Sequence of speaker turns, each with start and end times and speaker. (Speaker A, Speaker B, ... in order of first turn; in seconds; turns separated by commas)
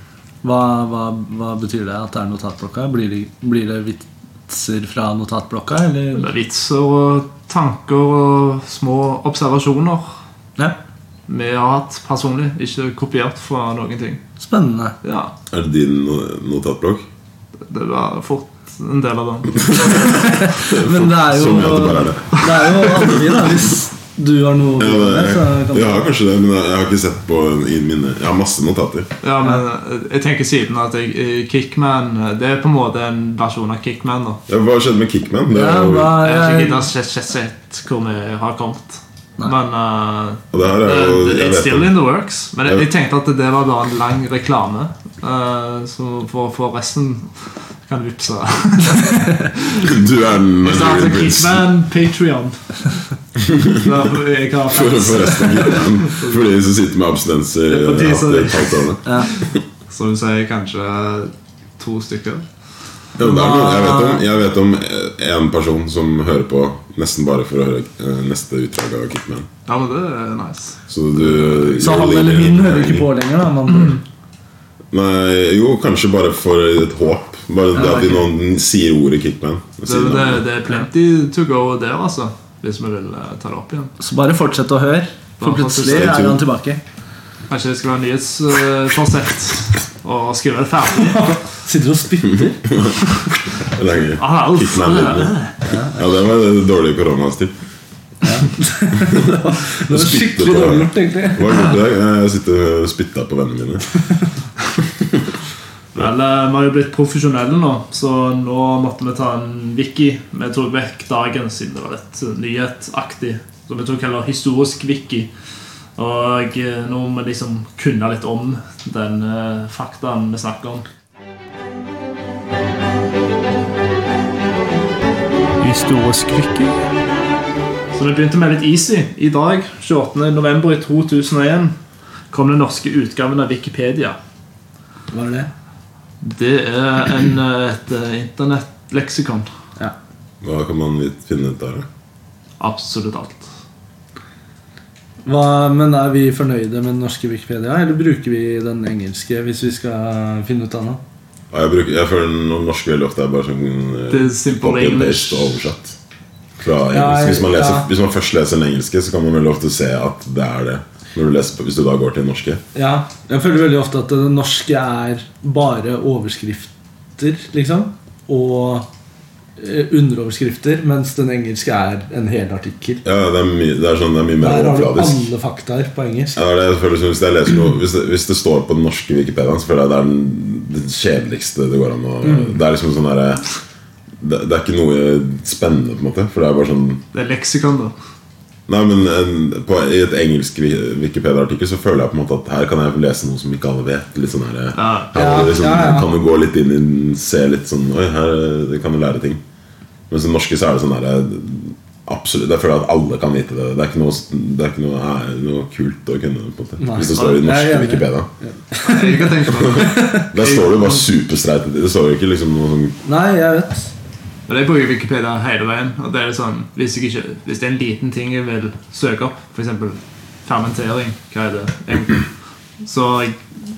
Speaker A: 0.4-6.3, Speaker B: 6.1-10.1, Speaker B: 11.3-14.2, Speaker A: 14.4-14.9, Speaker B: 15.0-15.3, Speaker C: 15.5-17.1, Speaker B: 17.7-20.3, Speaker C: 19.6-23.1, Speaker A: 20.0-26.1, Speaker B: 22.4-22.7, Speaker C: 24.8-29.1, Speaker B: 29.2-34.4, Speaker C: 34.5-36.2, Speaker A: 35.5-36.9, Speaker B: 36.2-49.9, Speaker C: 40.5-41.9, Speaker C: 49.8-51.6, Speaker B: 50.6-53.0, Speaker C: 53.4-54.0, Speaker B: 53.7-56.5, Speaker C: 54.7-59.6, Speaker B: 57.7-62.5, Speaker A: 59.0-59.3, Speaker C: 63.2-69.5, Speaker A: 63.2-64.2, Speaker B: 69.7-71.9, Speaker C: 70.9-73.1, Speaker A: 71.8-74.0, Speaker C: 74.9-80.5, Speaker A: 77.8-78.2, Speaker B: 79.8-83.9, Speaker A: 84.0-86.8, Speaker B: 85.4-86.2, Speaker C: 85.8-86.4, Speaker B: 87.5-91.3, Speaker A: 91.0-92.7, Speaker C: 92.3-95.4, Speaker B: 94.2-95.5, Speaker A: 95.7-96.0, Speaker C: 95.9-97.5, Speaker A: 98.2-101.7, Speaker C: 99.0-103.9, Speaker B: 105.9-115.3, Speaker B: 116.0-120.8, Speaker B: 125.6-126.8, Speaker B: 127.9-131.8, Speaker B: 132.3-134.2, Speaker A: 135.1-135.5, Speaker B: 136.2-139.5, Speaker C: 140.4-141.9, Speaker B: 142.6-143.5, Speaker A: 145.2-151.0, Speaker C: 151.5-156.0, Speaker B: 154.1-155.6, Speaker C: 156.6-162.6, Speaker A: 156.9-157.9, Speaker A: 162.8-168.9, Speaker A: 169.6-173.0, Speaker C: 173.0-175.3, Speaker A: 174.4-176.4, Speaker C: 176.3-183.4, Speaker A: 182.2-182.6, Speaker C: 184.2-187.0, Speaker B: 187.1-187.9, Speaker C: 188.7-199.4, Speaker B: 194.8-195.1, Speaker A: 195.1-196.1, Speaker C: 200.1-208.3, Speaker A: 206.8-210.3, Speaker B: 207.1-207.4, Speaker B: 208.8-211.0, Speaker C: 209.4-212.9, Speaker A: 213.1-213.9, Speaker B: 214.5-222.2, Speaker B: 222.8-223.4